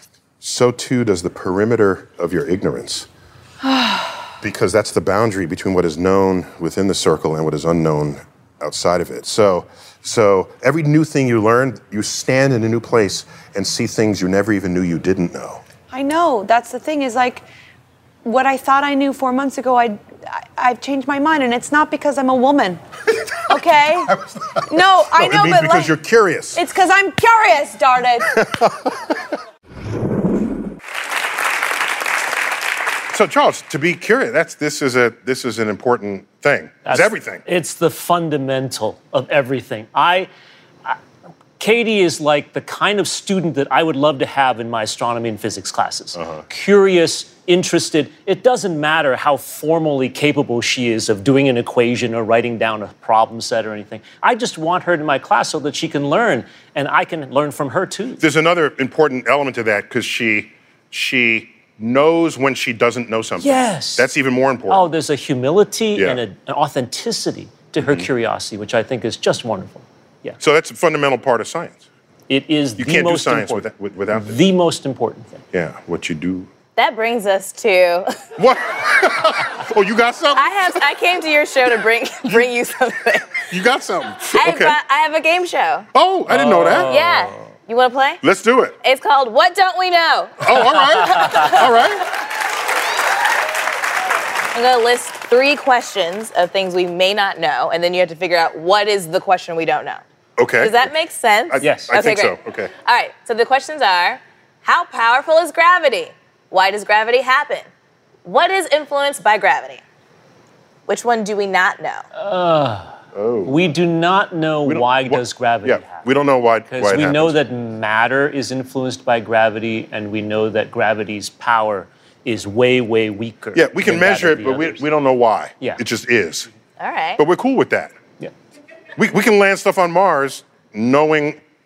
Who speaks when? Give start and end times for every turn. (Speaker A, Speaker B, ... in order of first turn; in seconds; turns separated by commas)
Speaker A: 0.4-3.1, Speaker B: 3.6-4.3, Speaker A: 4.4-15.6, Speaker B: 15.9-17.4, Speaker B: 18.2-22.8, Speaker A: 23.3-26.6, Speaker B: 23.5-25.9, Speaker B: 26.6-28.4, Speaker A: 28.3-29.3, Speaker A: 33.1-37.4, Speaker C: 36.9-40.3, Speaker C: 41.6-58.2, Speaker A: 46.2-46.4, Speaker A: 58.2-64.9, Speaker C: 63.4-64.1, Speaker C: 64.7-70.4, Speaker A: 66.0-66.2, Speaker A: 67.8-68.1, Speaker A: 70.4-71.8, Speaker C: 72.3-75.4, Speaker A: 72.8-74.4, Speaker A: 75.5-76.5, Speaker D: 76.8-78.2, Speaker A: 78.4-80.8, Speaker D: 80.3-83.5, Speaker A: 83.5-84.8, Speaker D: 84.3-85.9, Speaker A: 85.9-86.9, Speaker C: 86.3-87.4, Speaker D: 86.9-88.2, Speaker A: 88.2-88.8, Speaker D: 88.8-91.9, Speaker A: 90.4-92.1, Speaker D: 94.5-100.0, Speaker A: 100.4-100.9, Speaker D: 100.6-107.7, Speaker A: 101.5-102.7, Speaker C: 101.6-101.9, Speaker D: 108.2-109.8, Speaker D: 110.9-112.1, Speaker C: 112.2-116.0, Speaker A: 113.1-113.7, Speaker A: 114.7-117.4, Speaker C: 116.7-124.8, Speaker A: 123.5-126.5, Speaker D: 126.8-127.2, Speaker A: 127.2-128.0, Speaker A: 129.0-131.4